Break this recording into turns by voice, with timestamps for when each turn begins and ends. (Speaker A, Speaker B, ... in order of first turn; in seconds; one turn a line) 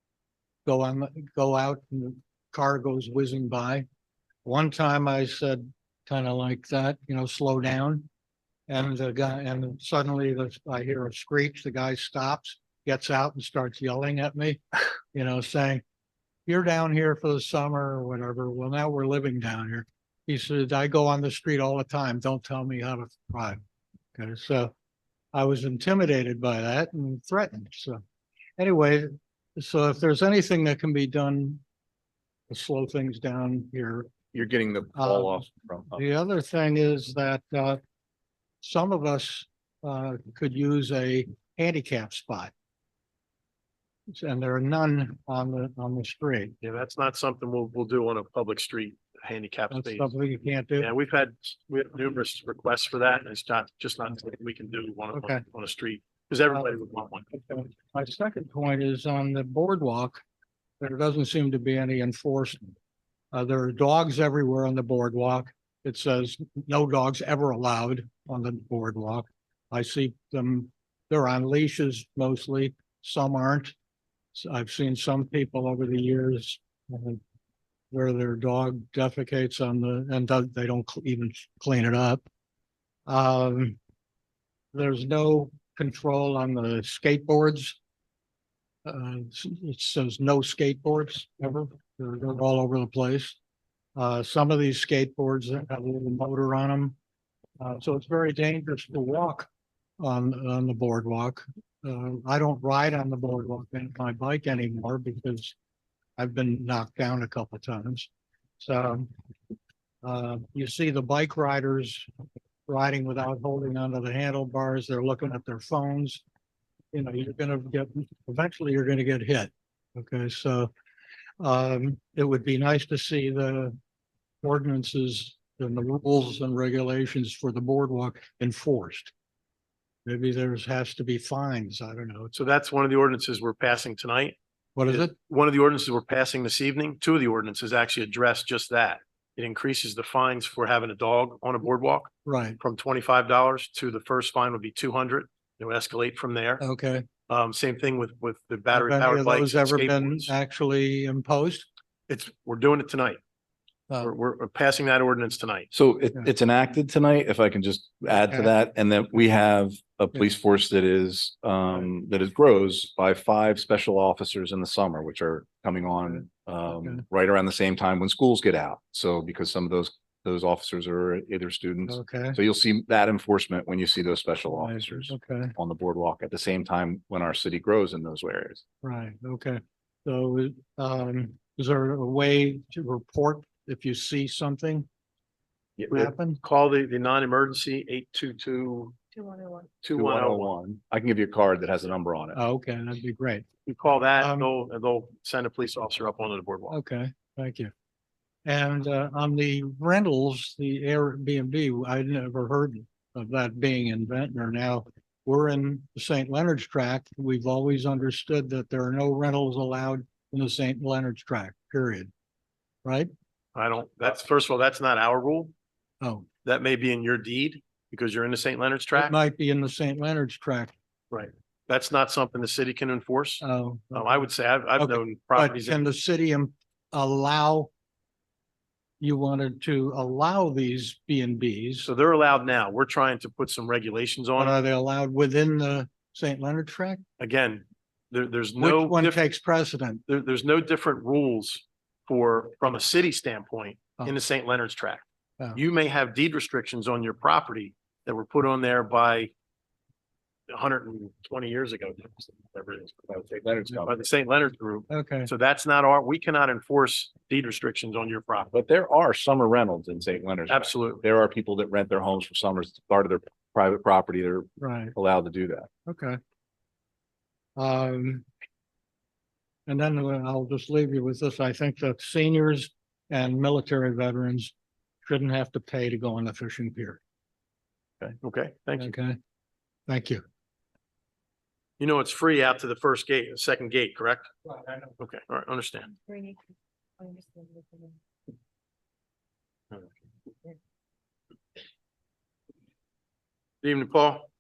Speaker A: 0.6-3.9
Speaker A: 4.5-8.1
Speaker A: 8.7-15.8
Speaker A: 16.5-23.6
Speaker A: 24.2-24.7
Speaker A: 25.3-28.0
Speaker A: 28.6-31.6
Speaker A: 32.5-34.1
Speaker B: 34.3-36.0
Speaker A: 35.0-37.8
Speaker A: 38.6-42.5
Speaker A: 44.1-46.5
Speaker C: 46.6-50.1
Speaker A: 49.7-50.9
Speaker C: 50.8-57.4
Speaker A: 55.1-55.4
Speaker A: 57.3-60.2
Speaker A: 60.8-62.8
Speaker A: 63.3-73.7
Speaker A: 74.3-77.2
Speaker A: 77.9-82.2
Speaker A: 83.1-83.8
Speaker A: 84.7-87.8
Speaker A: 88.8-93.4
Speaker A: 94.0-97.0
Speaker A: 97.6-105.5
Speaker A: 106.2-108.1
Speaker A: 108.6-109.1
Speaker A: 110.0-112.1
Speaker A: 112.7-116.2
Speaker A: 116.9-120.7
Speaker A: 121.4-123.7
Speaker A: 124.4-129.1
Speaker A: 130.1-132.3
Speaker C: 132.3-134.3
Speaker A: 134.8-135.1
Speaker C: 134.9-146.6
Speaker A: 142.2-142.6
Speaker A: 146.6-147.1
Speaker C: 147.3-150.3
Speaker A: 148.7-151.7
Speaker C: 152.1-153.2
Speaker C: 154.0-155.7
Speaker B: 155.7-178.6
Speaker A: 166.7-167.0
Speaker A: 171.9-172.4
Speaker A: 174.5-175.5
Speaker A: 178.8-184.8
Speaker C: 185.9-189.0
Speaker A: 185.9-186.4
Speaker D: 189.1-189.7
Speaker C: 189.8-190.5
Speaker B: 189.9-192.4
Speaker A: 192.3-193.4
Speaker C: 193.7-196.8
Speaker A: 194.2-194.5
Speaker A: 196.7-197.7
Speaker A: 198.4-212.1
Speaker A: 212.8-213.1
Speaker C: 213.5-215.5
Speaker A: 216.0-216.2
Speaker C: 216.4-219.1
Speaker A: 218.9-220.7
Speaker C: 221.1-225.8
Speaker A: 223.4-224.3
Speaker A: 224.8-227.7
Speaker A: 229.0-231.9
Speaker C: 231.8-234.6
Speaker A: 234.4-237.0
Speaker C: 237.2-239.2
Speaker A: 238.6-240.0
Speaker C: 240.1-249.3
Speaker C: 250.5-258.5
Speaker B: 253.3-253.9
Speaker A: 254.9-255.3
Speaker B: 258.5-265.7
Speaker C: 260.5-261.0
Speaker A: 264.6-264.9
Speaker A: 265.9-266.2
Speaker A: 267.6-268.2
Speaker A: 269.7-274.5
Speaker A: 275.1-277.0
Speaker C: 278.2-278.9
Speaker A: 278.8-279.2
Speaker A: 279.9-280.2
Speaker C: 281.8-284.3
Speaker A: 284.5-284.9
Speaker C: 285.0-285.9
Speaker D: 286.0-286.4
Speaker D: 287.0-288.0
Speaker C: 293.6-294.3